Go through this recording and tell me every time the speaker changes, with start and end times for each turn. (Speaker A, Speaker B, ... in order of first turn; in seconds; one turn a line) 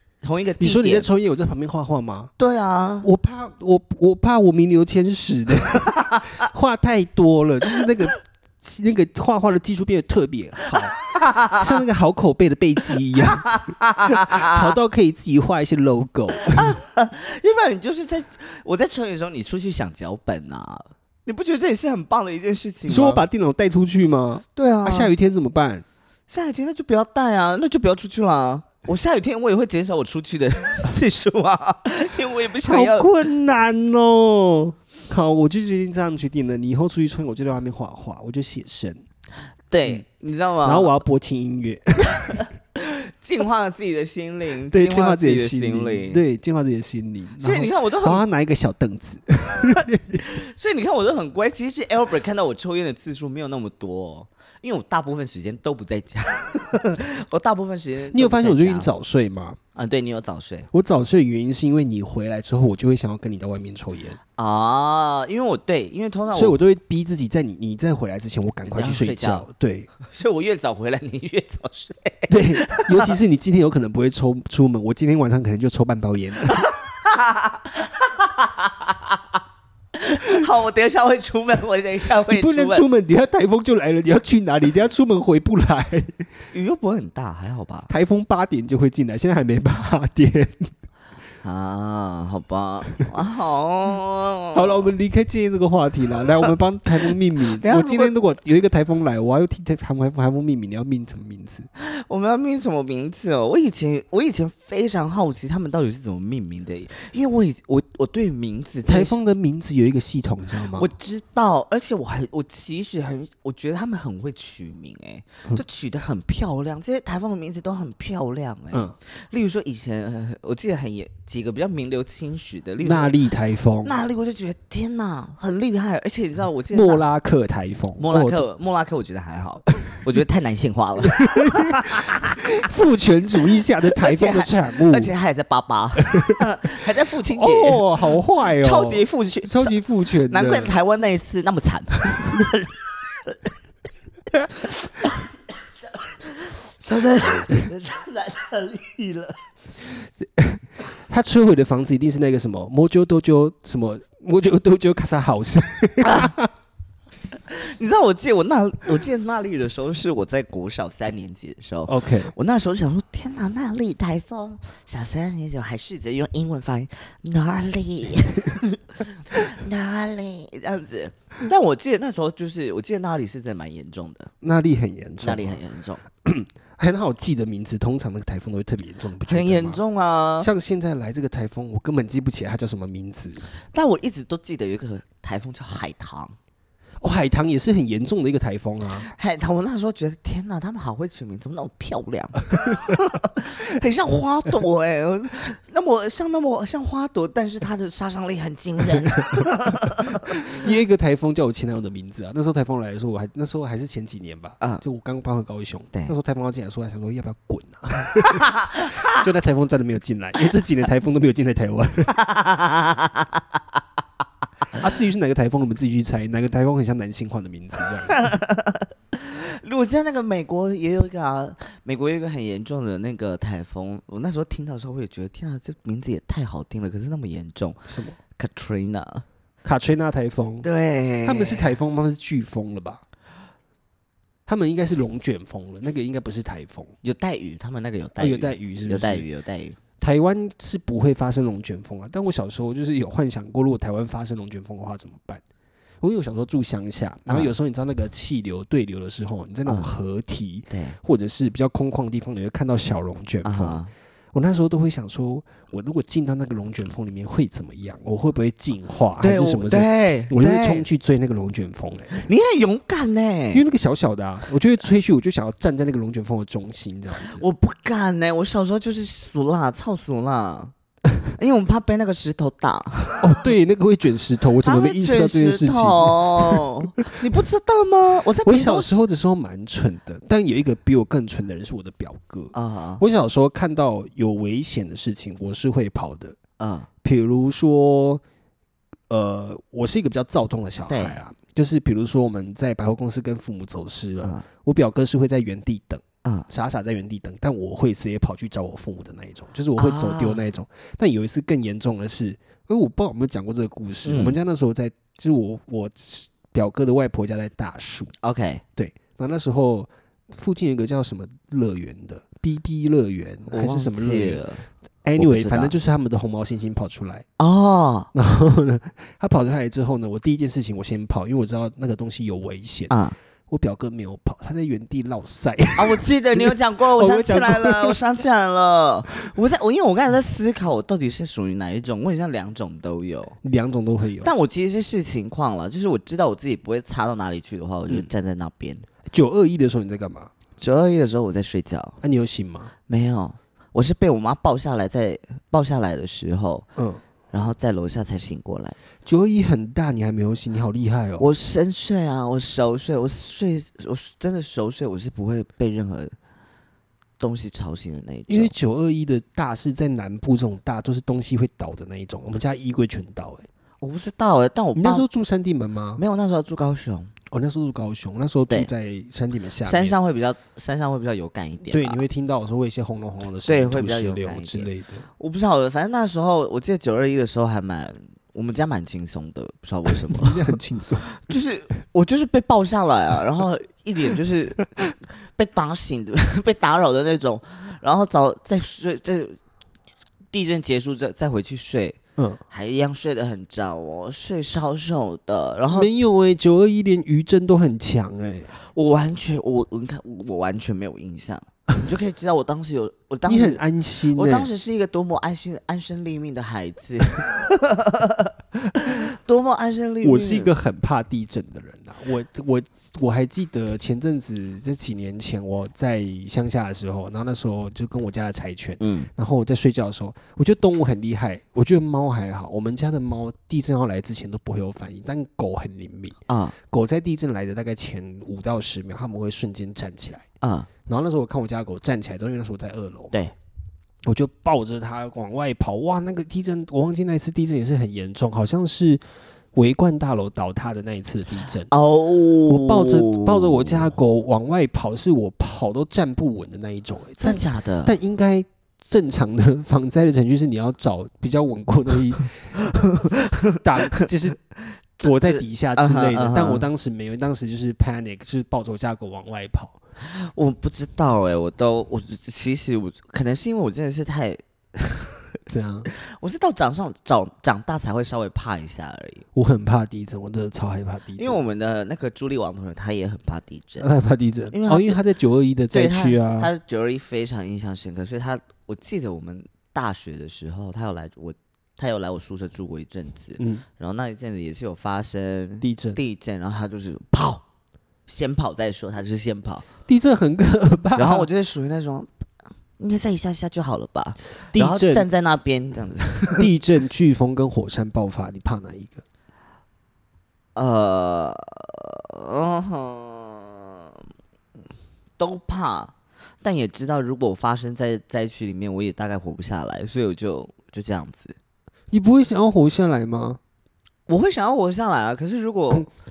Speaker A: 0.2-1.1
Speaker B: 0.6-2.3
Speaker A: 2.4-3.1
Speaker B: 3.0-13.5
Speaker A: 11.1-11.6
Speaker A: 13.4-14.6
Speaker B: 14.1-16.8
Speaker A: 16.5-23.2
Speaker B: 22.9-25.9
Speaker A: 24.6-25.1
Speaker A: 26.3-33.1
Speaker B: 32.6-39.0
Speaker A: 39.7-41.0
Speaker B: 40.6-42.5
Speaker A: 42.3-46.2
Speaker B: 44.7-50.2
Speaker A: 47.4-48.2
Speaker A: 50.3-58.9
Speaker B: 58.1-59.6
Speaker A: 59.8-60.7
Speaker B: 60.7-64.2
Speaker A: 64.4-66.6
Speaker B: 66.3-69.9
Speaker A: 68.7-69.5
Speaker A: 70.0-73.1
Speaker B: 72.3-76.7
Speaker A: 76.6-79.2
Speaker A: 80.0-82.8
Speaker B: 82.3-86.2
Speaker A: 86.5-87.9
Speaker B: 87.9-90.7
Speaker A: 91.4-94.9
Speaker B: 94.5-101.7
Speaker A: 97.1-98.1
Speaker A: 101.8-109.2
Speaker B: 108.9-110.9
Speaker A: 110.8-123.1
Speaker B: 122.8-123.9
Speaker A: 123.8-127.0
Speaker B: 126.7-128.4
Speaker A: 128.0-132.4
Speaker B: 131.2-131.9
Speaker B: 132.5-135.1
Speaker A: 133.9-137.8
Speaker B: 137.3-140.8
Speaker A: 138.6-139.8
Speaker A: 140.3-143.4
Speaker A: 144.6-145.2
Speaker A: 145.9-149.4
Speaker B: 150.2-156.5
Speaker A: 156.0-156.3
Speaker A: 157.5-174.3
Speaker B: 161.9-162.3
Speaker B: 174.4-175.6
Speaker A: 175.2-176.0
Speaker B: 176.2-179.8
Speaker A: 179.3-180.5
Speaker B: 180.4-183.4
Speaker A: 183.7-186.3
Speaker B: 187.0-189.1
Speaker A: 189.1-200.4
Speaker B: 200.5-208.5
Speaker A: 208.2-209.2
Speaker B: 209.0-212.1
Speaker A: 212.1-213.4
Speaker B: 214.7-218.2
Speaker A: 218.1-229.2
Speaker B: 227.9-228.2
Speaker B: 229.6-230.7
Speaker A: 230.6-231.7
Speaker B: 231.2-233.0
Speaker B: 234.5-236.9
Speaker A: 237.0-239.8
Speaker B: 238.2-239.3
Speaker B: 240.0-245.4
Speaker B: 246.0-253.8
Speaker A: 247.3-247.5
Speaker A: 249.7-249.9
Speaker A: 250.7-251.0
Speaker A: 253.4-253.9
Speaker B: 254.3-262.2
Speaker A: 259.2-260.9
Speaker A: 262.1-263.6
Speaker B: 263.5-267.5
Speaker A: 267.2-270.7
Speaker A: 271.3-273.4
Speaker B: 273.2-276.7
Speaker A: 274.6-279.0
Speaker B: 278.4-286.4
Speaker A: 282.5-283.0
Speaker A: 286.6-286.9
Speaker B: 287.0-288.2
Speaker B: 289.1-308.1
Speaker A: 290.9-291.2
Speaker A: 299.8-300.4
Speaker A: 304.1-304.4
Speaker A: 308.2-308.6
Speaker B: 308.8-314.4
Speaker A: 313.5-314.7
Speaker B: 315.0-317.3
Speaker A: 315.2-315.7
Speaker A: 317.4-318.1
Speaker B: 318.1-322.9
Speaker A: 322.9-323.2
Speaker B: 323.5-328.0
Speaker A: 325.8-333.4
Speaker B: 333.4-334.3
Speaker A: 334.2-338.9
Speaker B: 339.1-340.3
Speaker A: 340.6-342.0
Speaker B: 342.0-342.7
Speaker A: 342.9-346.7
Speaker B: 346.8-347.0
Speaker A: 347.3-348.8
Speaker B: 349.0-351.3
Speaker A: 351.2-356.1
Speaker A: 357.2-358.5
Speaker B: 358.3-363.5
Speaker A: 363.8-365.1
Speaker B: 364.8-366.0
Speaker A: 366.0-367.1
Speaker B: 367.3-370.0
Speaker A: 369.6-372.0
Speaker B: 371.7-375.1
Speaker A: 373.4-380.6
Speaker B: 380.0-381.1
Speaker A: 381.2-389.4
Speaker A: 390.3-392.0
Speaker A: 392.5-395.9
Speaker B: 395.7-398.5
Speaker A: 398.7-408.3
Speaker B: 403.3-404.5
Speaker A: 408.8-410.5
Speaker B: 410.0-426.2
Speaker A: 418.8-419.1
Speaker A: 426.3-426.6
Speaker B: 426.7-430.2
Speaker A: 430.4-430.7
Speaker B: 430.9-433.1
Speaker B: 434.1-439.0
Speaker B: 439.5-441.7
Speaker A: 441.7-443.9
Speaker B: 442.5-454.4
Speaker A: 447.2-447.9
Speaker A: 453.2-454.1
Speaker A: 455.0-456.7
Speaker B: 455.0-459.8
Speaker A: 460.0-465.3
Speaker B: 465.5-465.9
Speaker A: 465.9-469.2
Speaker B: 469.4-471.4
Speaker A: 471.2-473.9
Speaker B: 473.8-476.5
Speaker A: 474.5-475.0
Speaker A: 475.7-487.4
Speaker B: 483.4-483.6
Speaker B: 485.6-486.0
Speaker A: 488.1-489.7
Speaker B: 489.9-491.3
Speaker A: 490.9-492.1
Speaker A: 492.8-496.5
Speaker B: 494.5-495.1
Speaker B: 496.3-499.0
Speaker A: 500.6-503.8
Speaker A: 505.2-511.4
Speaker B: 511.9-513.4
Speaker A: 514.1-515.9